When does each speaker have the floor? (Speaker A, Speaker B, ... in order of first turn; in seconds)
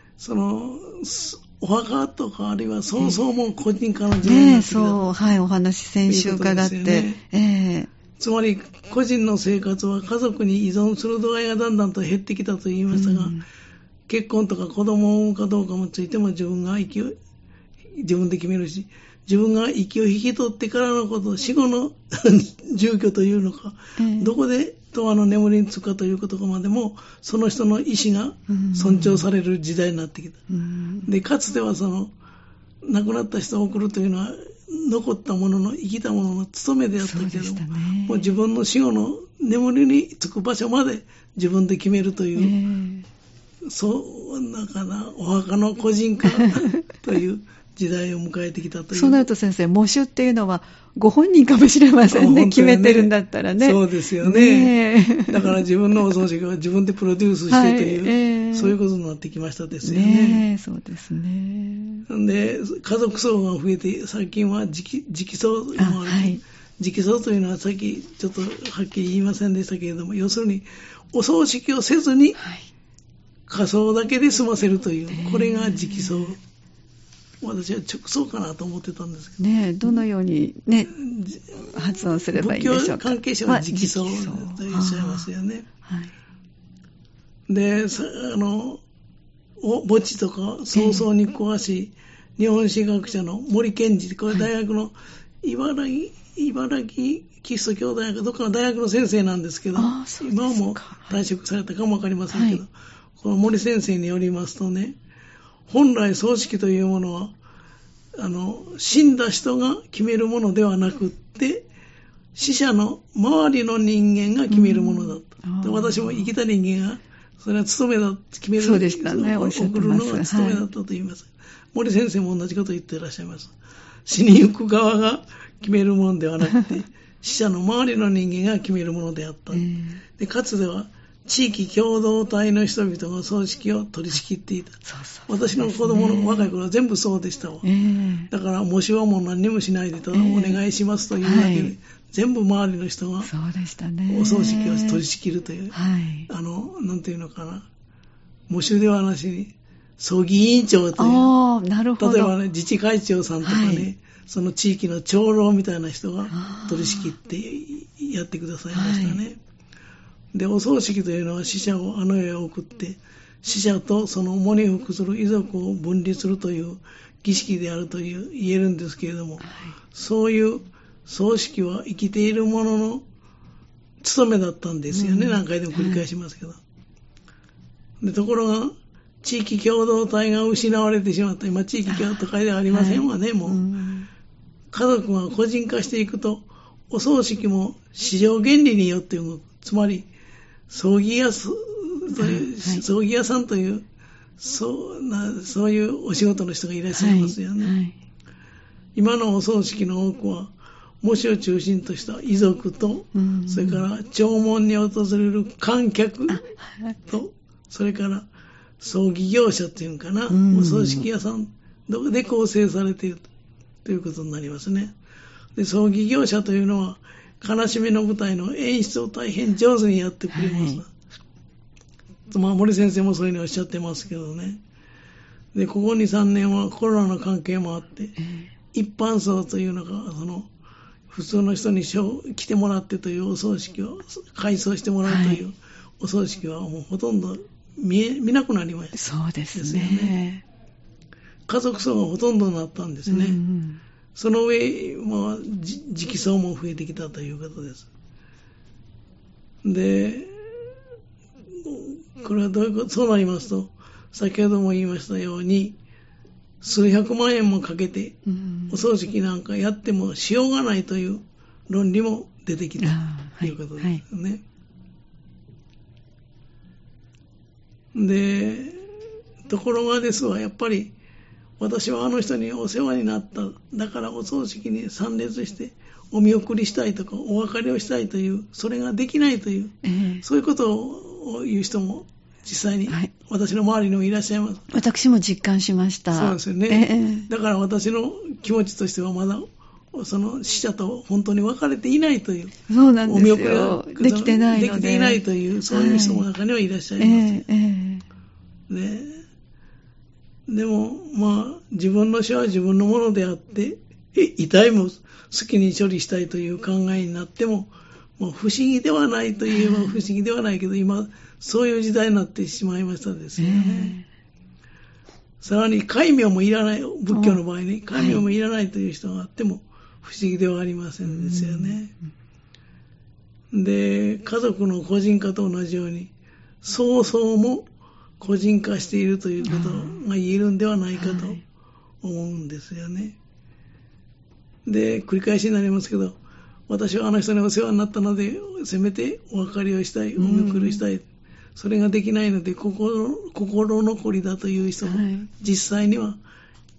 Speaker A: 0.2-5.0, 6.0-7.2, 8.2-13.3, 14.1-17.1, 18.0-30.4, 31.0-32.1, 32.9-42.5, 43.7-49.3, 52.1-60.4, 62.1-72.4, 73.5-76.4, 77.4-79.4, 80.9-85.7, 87.5-88.8, 89.6-105.0, 105.7-107.3, 108.2-111.6, 112.3-123.5, 124.0-129.7, 130.2-137.6, 138.3-143.3, 144.1-145.8, 146.3-147.7, 148.5-151.3, 152.0-159.4, 160.3-173.0, 174.0-176.6, 178.0-183.6, 184.7-190.1, 190.7-193.8, 194.4-197.7, 198.9-206.4, 207.1-208.3, 208.8-213.3, 213.8-214.9, 215.5-220.9, 222.3-224.6, 225.5-228.2, 228.7-230.5, 231.1-239.0, 239.5-240.2, 241.5-243.4, 244.1-247.9, 249.6-250.7, 251.6-255.8, 256.6-258.2, 258.7-264.4, 267.9-270.9, 271.6-284.7, 286.1-292.5, 293.0-297.4, 298.7-299.2, 300.5-313.9, 315.4-321.9, 323.5-326.1, 326.6-327.6, 328.2-331.4, 332.0-333.1, 334.6-336.2, 336.7-341.0, 341.6-346.2
Speaker B: 4.2-7.9, 12.9-13.4, 24.0-24.4, 28.5-29.2, 30.5-31.1, 37.0-38.3, 42.4-43.1, 46.3-46.8, 48.9-55.6, 57.5-58.8, 59.8-62.0, 65.8-66.4, 72.4-72.7, 75.1-76.3, 79.4-80.9, 81.5-85.3, 85.8-86.1, 90.7-91.0, 99.7-101.2, 102.3-102.6, 114.5-116.3, 118.6-120.6, 129.5-130.0, 134.8-136.5, 137.6-138.3, 140.1-140.6, 141.2-141.8, 143.2-145.0, 145.7-146.3, 151.0-152.3, 153.4-153.9, 156.3-157.1, 158.7-159.2, 169.4-169.7, 174.9-176.0, 181.9-184.1, 192.1-192.8, 196.9-197.9, 203.1-203.8, 206.3-207.0, 210.3-211.1, 220.3-220.8, 228.2-228.5, 235.0-235.4, 238.9-240.4, 243.1-243.8, 258.2-258.8, 262.8-264.0, 279.8-280.2, 284.7-287.3, 292.7-296.2, 297.0-298.0, 309.5-310.0, 313.4-314.0, 317.1-317.4, 317.9-318.2, 321.0-321.8, 329.4-330.0, 330.9-331.4, 340.2-340.8, 344.8-345.3